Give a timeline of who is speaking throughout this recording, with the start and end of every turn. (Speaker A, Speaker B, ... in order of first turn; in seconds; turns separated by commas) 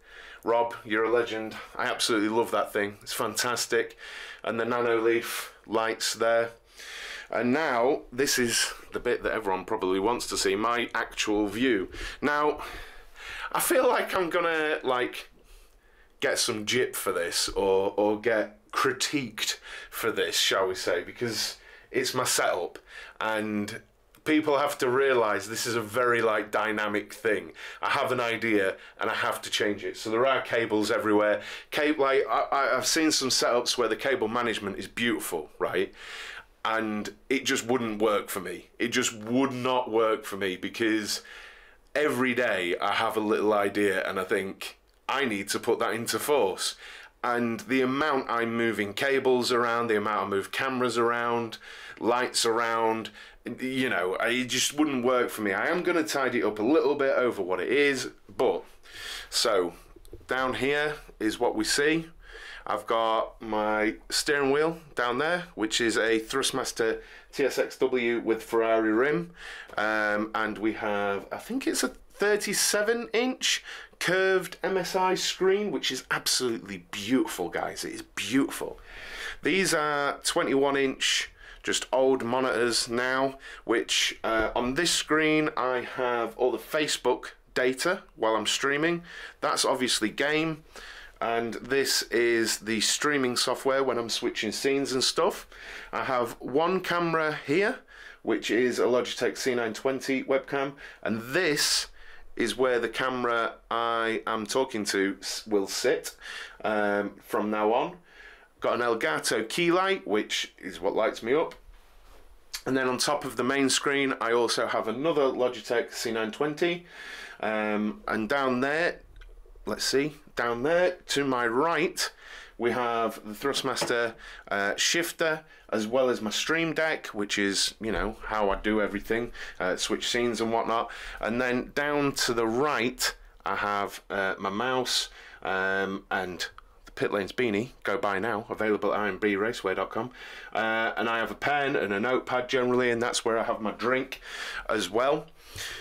Speaker A: 0.4-6.6, Speaker A: 7.3-12.7, Speaker A: 13.5-15.3, Speaker A: 16.2-35.9, Speaker A: 36.6-41.2, Speaker A: 41.9-58.7, Speaker A: 59.3-59.8, Speaker A: 60.3-62.1, Speaker A: 62.6-78.8, Speaker A: 79.4-90.6, Speaker A: 91.2-108.0, Speaker A: 108.6-111.5, Speaker A: 112.7-116.8, Speaker A: 117.4-119.0, Speaker A: 119.7-145.3